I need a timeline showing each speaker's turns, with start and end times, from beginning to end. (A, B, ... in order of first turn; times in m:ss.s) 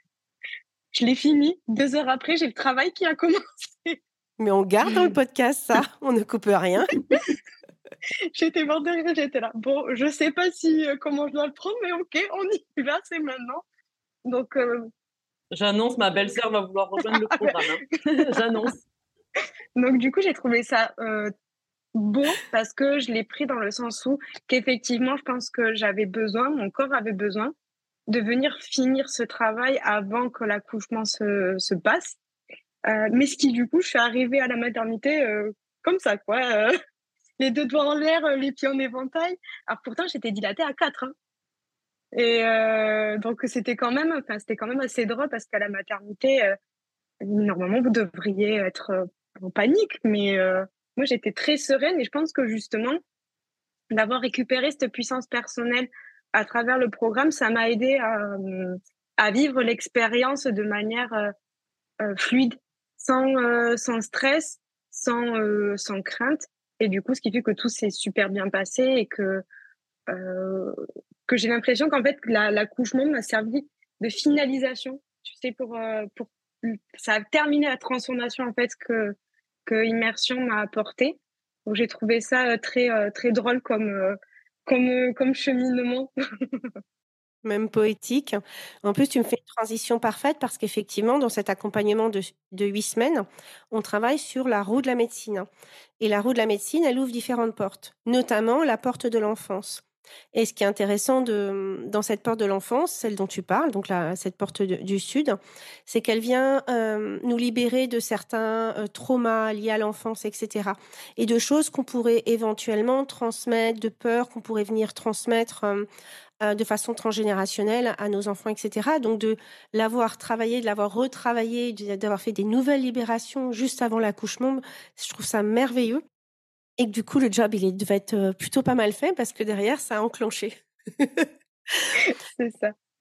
0:00.9-0:04.0 A
0:04.4-0:07.0 B
0:08.3-0:13.6 A
0:14.2-0:14.9 A
0:15.5-0:18.8 C
0:17.1-0:17.6 A
0:19.8-0:21.3 A
0:21.9-0:27.5 A
0:28.1-0:32.2 A
0:32.9-0:36.7 A
0:37.4-0:41.1 A
0:42.1-0:46.5 A
0:47.2-0:53.0 A
0:53.9-1:01.3 A
1:02.0-1:09.4 A
1:10.1-1:26.7 A
1:27.4-1:35.5 B
1:36.0-1:55.9 B
1:56.4-2:06.0 B
2:06.8-2:11.8 B
2:12.0-2:12.7 A